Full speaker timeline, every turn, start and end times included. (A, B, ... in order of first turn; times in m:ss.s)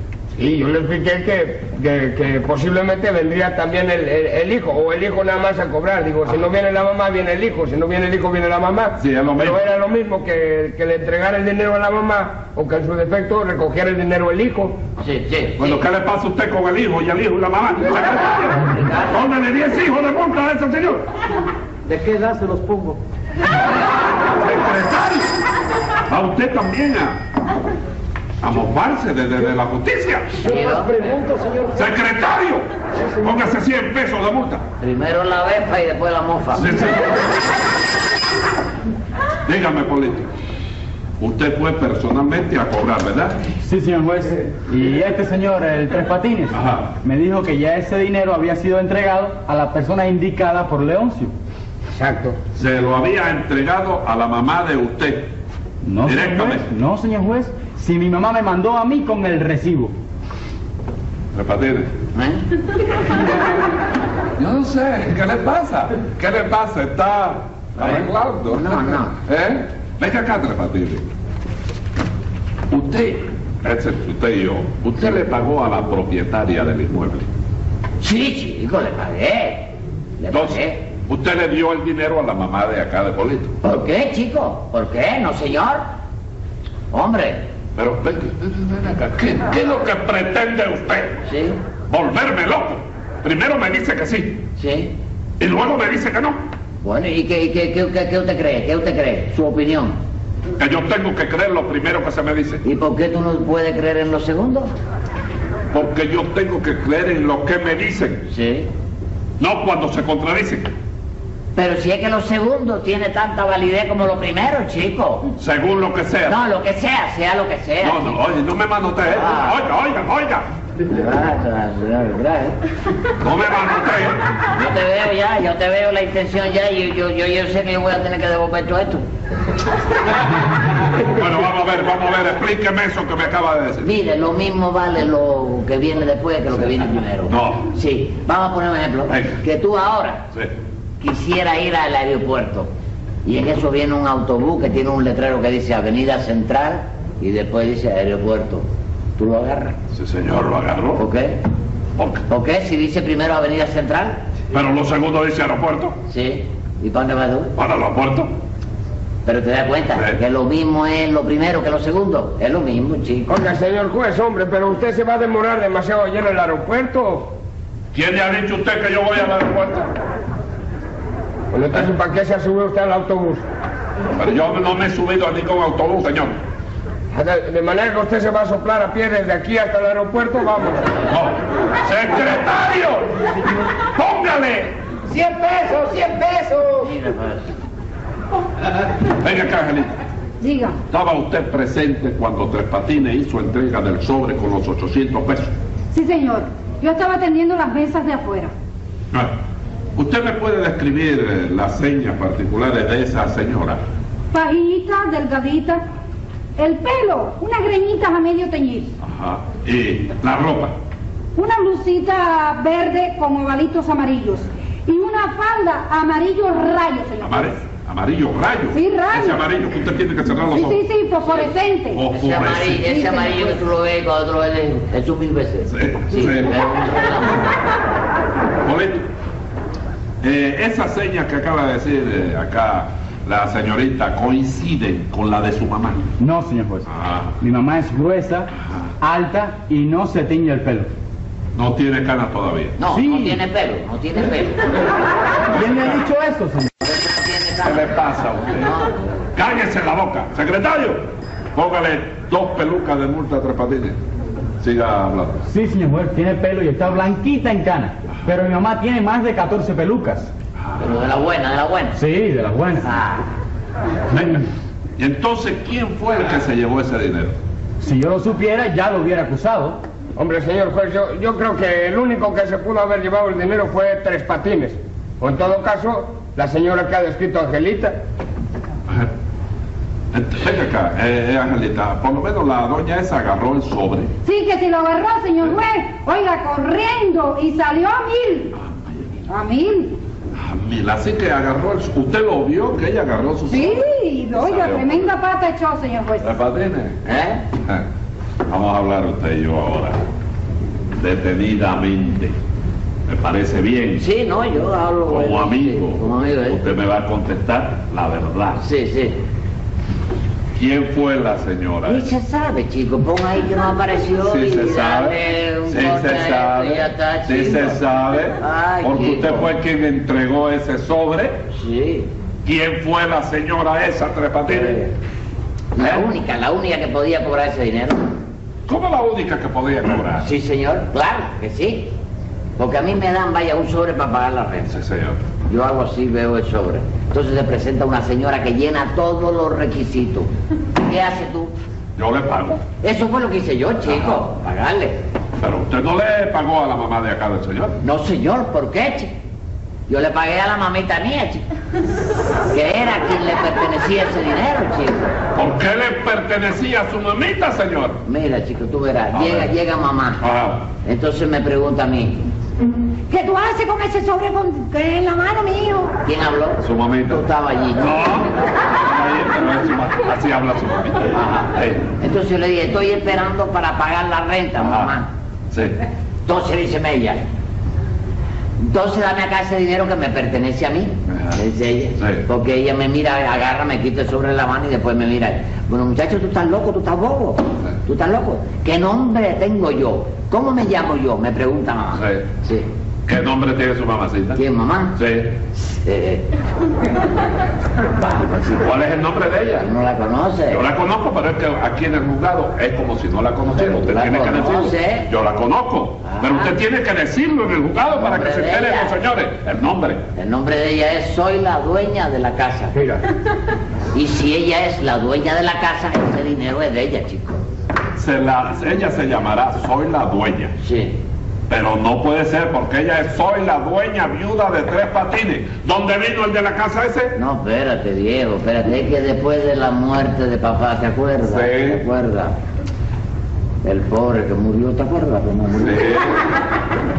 0:00.4-0:14.8 A
0:09.0-0:09.6 B
0:15.0-0:15.8 C
0:15.6-0:21.1 B
0:18.7-0:19.2 C
0:21.8-0:23.0 D
0:24.1-0:25.3 B
0:26.1-0:27.2 B
0:28.4-0:30.4 B
0:30.4-0:31.1 C
0:30.4-0:31.9 D
0:31.7-0:32.7 B
0:33.2-0:34.6 B
0:34.8-0:36.7 C
0:36.5-0:37.3 B
0:39.4-0:40.3 B
0:41.2-0:43.4 B
0:43.6-0:51.3 E
0:46.5-0:46.9 B
0:51.9-0:52.4 A
0:52.5-0:55.3 B
0:55.8-0:59.9 E
0:56.0-0:56.7 B
1:01.3-1:01.9 B
1:02.1-1:02.4 C
1:04.4-1:11.0 B
1:07.8-1:09.2 C
1:12.7-1:17.3 B
1:18.0-1:20.8 C
1:20.3-1:23.6 B
1:23.6-1:25.8 C
1:26.9-1:27.4 C
1:27.8-1:31.2 B
1:31.2-1:31.6 C
1:31.9-1:34.4 B
1:34.6-1:34.9 C
1:35.4-1:36.4 B
1:36.8-1:40.0 C
1:40.6-1:42.6 B
1:42.6-1:44.7 C
1:45.7-1:48.2 B
1:48.3-1:48.7 C
1:49.4-1:50.7 B
1:51.5-1:55.3 C
1:55.4-1:56.4 B
1:56.2-1:58.2 C
1:57.8-2:00.5 B
1:59.1-1:59.6 C
2:00.9-2:02.6 C
2:03.2-2:04.2 B
2:04.5-2:09.0 C
2:11.0-2:13.9 B
2:13.8-2:20.2 C
2:17.3-2:17.6 B
2:19.1-2:19.4 B
2:21.0-2:22.7 C
2:23.2-2:29.8 C
2:29.9-2:31.0 B
2:31.0-2:31.4 C
2:32.0-2:32.2 B
2:32.3-2:34.2 C
2:34.5-2:36.0 B
2:36.1-2:37.5 C
2:37.5-2:38.3 B
2:39.2-2:43.3 C
2:39.9-2:40.2 B
2:43.3-2:47.3 A
2:47.9-2:49.9 B
2:51.5-2:53.4 A
2:54.2-2:56.4 B
2:57.1-3:00.9 A
3:01.1-3:03.2 B
3:03.9-3:04.8 B
3:05.1-3:06.9 D
3:06.8-3:07.5 C
3:09.1-3:10.0 B
3:10.4-3:10.8 F
3:10.9-3:15.5 B
3:15.9-3:18.5 F
3:19.9-3:23.8 B
3:24.3-3:25.8 F
3:26.6-3:28.9 F
3:29.0-3:30.7 B
3:31.4-3:37.6 F
3:37.2-3:40.8 B
3:38.7-3:39.4 F
3:40.5-3:42.0 F
3:41.9-3:42.8 B
3:42.1-3:47.6 C
3:42.8-3:43.6 F
3:45.7-3:46.6 B
3:48.6-3:49.1 B
3:50.2-3:56.1 B
3:56.2-3:56.9 E
3:56.9-3:57.3 B
3:57.4-4:00.9 E
4:01.5-4:02.8 B
4:02.8-4:04.9 C
4:02.8-4:03.4 E
4:05.5-4:06.7 E
4:05.5-4:06.0 B
4:06.8-4:09.1 C
4:07.6-4:08.7 B
4:09.3-4:14.0 B
4:14.6-4:15.4 B
4:15.5-4:20.3 E
4:20.6-4:21.0 B
4:20.8-4:22.0 C
4:22.0-4:22.9 E
4:22.8-4:23.2 C
4:24.1-4:24.4 B
4:24.1-4:24.4 E
4:25.0-4:27.4 B
4:27.8-4:29.8 E
4:30.2-4:38.0 A
4:40.1-4:44.1 B
4:44.2-4:48.5 F
4:48.5-4:49.2 B
4:49.3-4:50.0 F
4:50.4-4:53.8 B
4:53.5-4:56.3 F
4:54.3-4:55.1 B
4:56.2-4:57.0 B
4:57.0-4:57.4 C
4:58.5-5:00.0 B
5:01.0-5:02.3 B
5:03.1-5:04.0 B
5:04.0-5:06.6 C
5:05.1-5:08.6 B
5:08.6-5:09.2 C
5:10.5-5:12.1 B
5:11.8-5:17.8 C
5:14.2-5:21.4 B
5:18.4-5:19.5 C
5:21.5-5:22.1 C
5:22.4-5:24.9 B
5:24.5-5:24.9 C
5:25.7-5:28.1 C
5:25.8-5:26.1 B
5:28.7-5:30.3 B
5:30.2-5:31.9 C
5:32.6-5:34.8 C
5:34.7-5:35.2 B
5:35.5-5:41.5 C
5:42.0-5:42.6 B
5:42.8-5:45.0 C
5:43.9-5:44.2 B
5:45.4-5:47.8 B
5:47.8-5:49.1 C
5:49.9-5:51.4 C
5:52.5-5:55.2 C
5:55.3-5:58.0 B
5:58.0-6:00.2 C
5:59.1-5:59.5 B
6:00.2-6:00.7 B
6:00.8-6:02.2 C
6:03.1-6:05.9 F
6:06.0-6:08.4 C
6:06.6-6:07.2 B
6:07.8-6:11.8 B
6:11.1-6:15.1 C
6:14.6-6:14.9 B
6:15.5-6:15.8 B
6:16.2-6:17.2 C
6:18.6-6:32.7 C
6:21.1-6:21.4 B
6:22.0-6:22.2 B
6:31.9-6:32.3 B
6:33.0-6:34.4 B
6:34.3-6:35.0 C
6:34.9-6:35.3 B
6:35.6-6:36.2 C
6:38.0-6:38.6 C
6:38.5-6:39.7 B
6:39.6-6:40.6 C
6:40.5-6:50.0 B
6:43.5-6:45.1 C
6:46.0-6:46.6 C
6:48.0-6:48.9 C
6:50.2-6:52.8 C
6:52.7-6:53.0 A
6:53.9-6:57.4 C
6:57.9-7:00.5 B
7:00.6-7:01.0 C
7:01.5-7:07.2 B
7:07.1-7:12.4 C
7:11.2-7:11.8 B
7:13.6-7:16.0 C
7:15.6-7:16.2 B